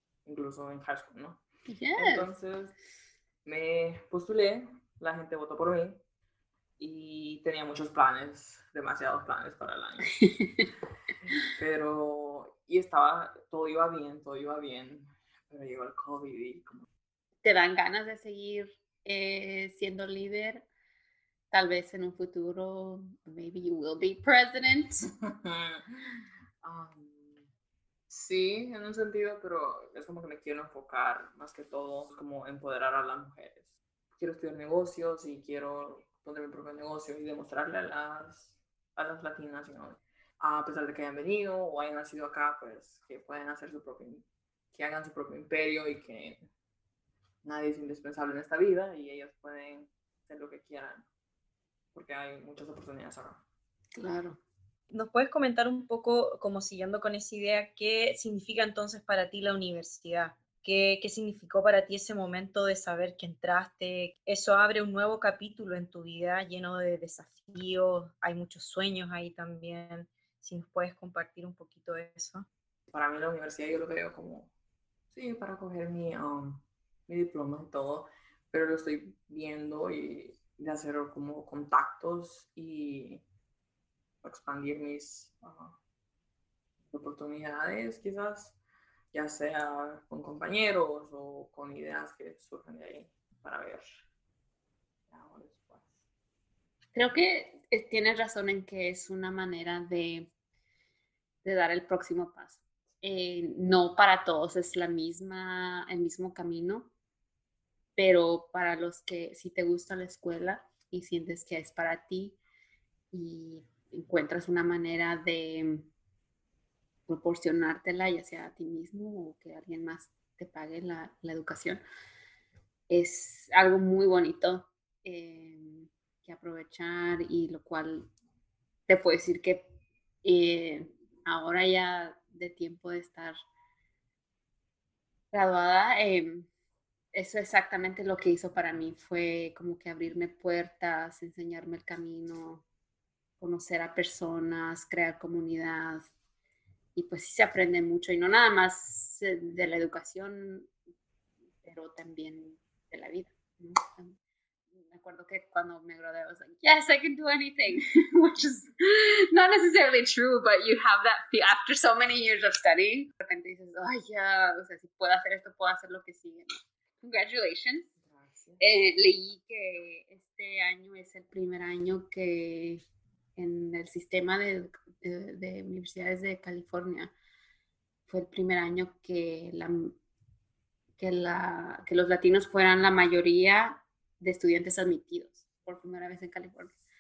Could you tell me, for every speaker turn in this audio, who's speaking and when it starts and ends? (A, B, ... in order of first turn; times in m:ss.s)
0:00.2-0:01.4 A
0:01.7-0:02.3 B
0:02.0-0:02.8 A
0:03.4-0:06.0 A
0:06.8-0:10.4 A
0:10.2-0:10.6 B
0:11.3-0:16.9 A
0:17.4-0:20.7 B
0:21.5-0:25.1 B
0:25.2-0:27.5 A
0:28.1-0:46.5 A
0:47.4-0:51.0 A
0:51.9-0:53.4 A
0:53.9-0:54.4 B
0:54.9-1:12.5 C
1:12.9-1:14.5 A
1:15.1-1:23.2 A
1:24.2-1:25.8 A
1:26.9-1:28.6 A
1:29.1-1:34.0 A
1:35.1-1:36.0 A
1:37.0-1:40.3 B
1:41.4-1:46.9 B
1:48.0-1:52.4 B
1:53.1-1:55.9 B
1:57.1-2:01.8 B
2:02.9-2:08.1 B
2:08.9-2:13.4 B
2:15.3-2:16.5 B
2:17.1-2:22.6 B
2:23.4-2:26.1 B
2:27.0-2:30.7 B
2:31.6-2:34.2 B
2:34.8-2:47.9 B
2:48.0-2:48.6 A
2:48.6-2:52.8 B
2:53.4-2:57.1 B
2:58.1-3:00.0 B
3:01.0-3:06.8 B